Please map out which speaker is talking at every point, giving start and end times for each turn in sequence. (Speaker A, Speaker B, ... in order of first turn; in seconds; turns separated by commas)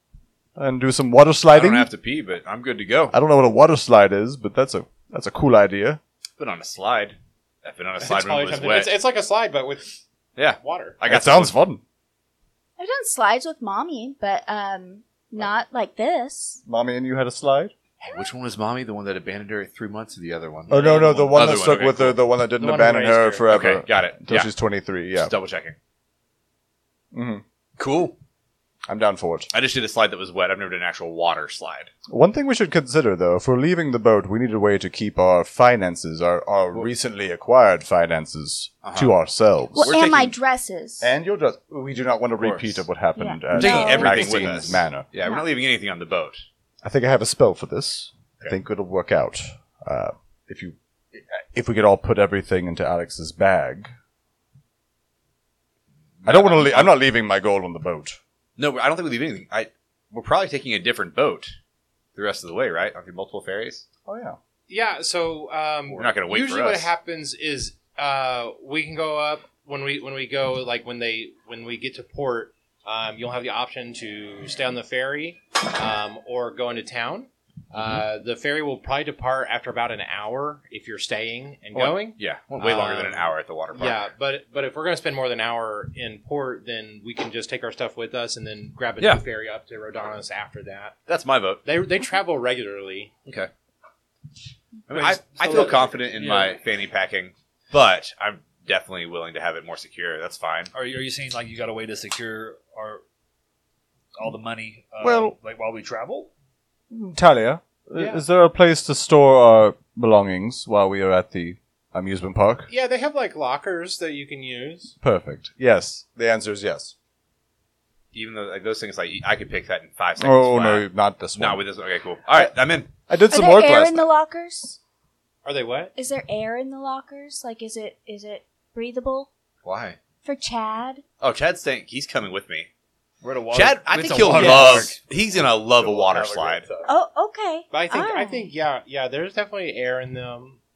Speaker A: 0.6-1.9, Speaker B: 1.5-3.1, Speaker A: 3.1-6.0, Speaker B: 6.4-8.9, Speaker C: 8.0-10.0, Speaker B: 10.3-11.6, Speaker C: 10.6-11.0, Speaker A: 11.1-11.8, Speaker D: 12.8-16.6, Speaker A: 16.6-17.7, Speaker B: 18.0-22.2, Speaker A: 20.7-25.3, Speaker C: 20.7-21.4, Speaker C: 22.6-23.5, Speaker B: 23.5-24.5, Speaker B: 25.1-25.8, Speaker A: 27.1-27.4, Speaker B: 27.8-28.1, Speaker A: 28.9-29.5, Speaker B: 29.5-31.9, Speaker A: 32.1-40.0, Speaker B: 38.8-39.1, Speaker D: 39.7-41.1, Speaker B: 39.8-40.3, Speaker A: 41.0-45.1, Speaker B: 42.4-42.8, Speaker D: 43.1-45.5, Speaker B: 43.5-46.4, Speaker A: 46.8-53.9, Speaker B: 56.2-57.0, Speaker A: 56.2-58.2, Speaker B: 58.6-61.5, Speaker B: 62.1-63.9, Speaker A: 64.0-64.4, Speaker C: 64.7-90.9, Speaker B: 65.9-66.9, Speaker B: 77.7-78.0, Speaker B: 81.7-84.1, Speaker B: 91.1-91.6, Speaker C: 91.6-93.1, Speaker B: 94.9-100.7, Speaker E: 94.9-96.6, Speaker E: 100.7-103.0, Speaker E: 104.2-106.3, Speaker A: 105.0-105.3, Speaker A: 106.9-112.7, Speaker C: 108.0-108.2, Speaker C: 112.7-114.9, Speaker A: 115.0-116.9, Speaker B: 118.1-122.9, Speaker A: 120.2-121.6, Speaker A: 122.3-124.1, Speaker D: 123.3-124.8, Speaker C: 125.4-125.9, Speaker D: 126.0-129.3, Speaker B: 129.6-130.0, Speaker D: 130.2-131.0, Speaker B: 131.2-132.7, Speaker E: 133.2-135.0, Speaker B: 133.5-136.7, Speaker C: 134.3-134.9, Speaker A: 135.7-136.9, Speaker D: 136.8-138.5, Speaker C: 137.7-140.6